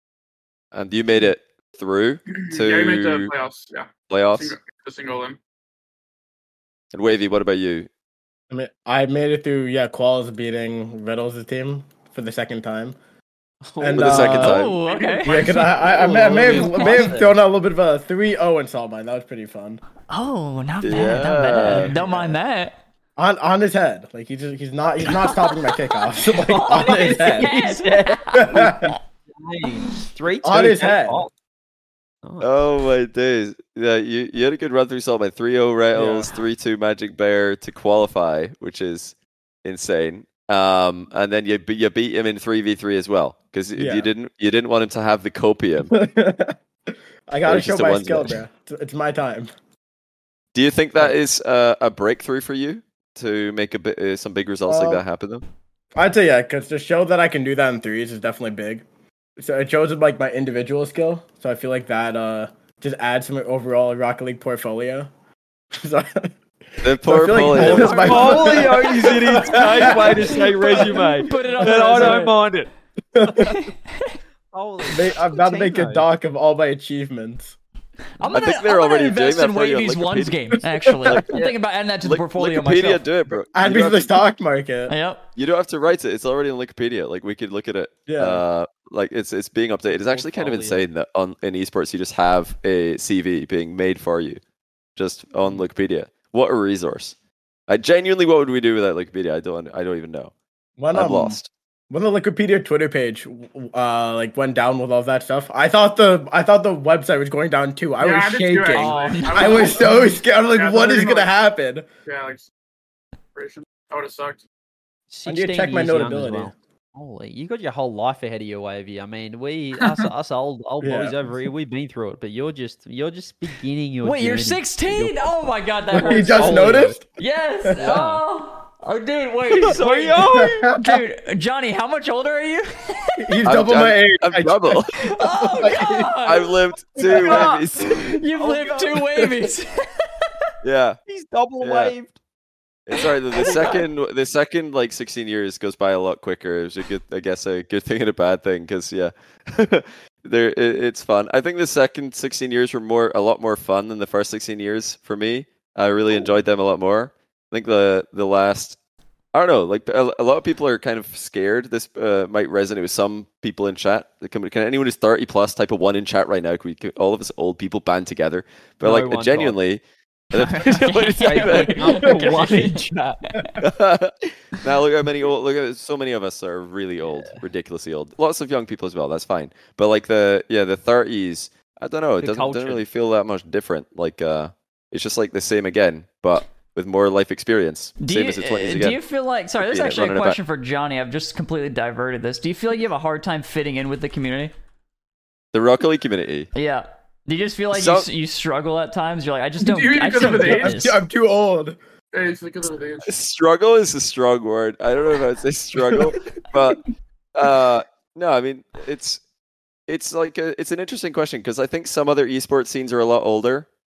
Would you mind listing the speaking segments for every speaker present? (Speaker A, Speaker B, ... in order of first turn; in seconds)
Speaker A: 0.7-3.3, 4.1-4.6, 6.9-7.9, 13.9-14.8, 20.8-21.9, 32.4-45.9, 47.4-48.4, 50.5-55.5, 66.8-68.4, 78.3-80.4, 81.1-84.2, 85.4-94.4, 95.0-97.2, 97.7-100.3, 100.9-101.5, 133.4-134.9, 136.2-137.9, 140.6-141.0, 141.6-141.9, 142.9-158.8, 159.3-172.5, 173.6-189.0, 189.6-190.4, 195.5-196.5, 197.7-198.1, 203.1-209.2, 209.9-213.7
Speaker B: 2.4-5.4, 14.9-15.8, 108.0-111.3, 112.1-112.5, 113.3-114.4, 119.8-120.1, 199.6-200.8, 202.1-203.1
Speaker C: 8.5-12.9, 13.8-14.6, 15.2-19.8, 21.7-22.4, 23.2-27.5, 28.3-29.0, 30.4-31.2, 35.9-36.3, 43.8-44.1, 45.9-46.6, 47.3-49.5, 54.7-55.0, 56.0-58.8, 59.4-65.1, 65.7-66.3, 67.0-71.0, 71.6-72.2, 73.2-73.6, 74.9-77.5, 80.8-81.2, 83.5-84.9, 88.1-88.4, 100.8-101.4, 101.9-111.9, 115.2-116.5, 120.8-121.2, 125.9-127.0, 130.3-131.0, 133.2-136.2, 200.2-201.8
Speaker D: 13.6-14.5, 15.9-17.4, 26.4-31.3, 32.2-32.5, 67.6-72.7, 74.5-76.1, 90.1-90.9, 108.8-109.5, 115.1-127.0, 127.8-128.2, 129.5-130.8, 137.1-137.7, 138.3-139.2, 141.1-142.2, 143.4-143.8, 168.8-169.6, 171.2-173.3, 177.1-177.4, 182.2-182.8
Speaker E: 14.1-15.7, 16.4-17.1, 20.1-22.8, 25.1-28.9, 67.5-72.4, 73.3-74.2, 78.2-83.0, 84.9-85.2, 108.8-109.9, 124.0-133.4, 135.0-140.3, 143.4-143.8, 170.3-173.6, 188.0-194.5, 196.5-201.0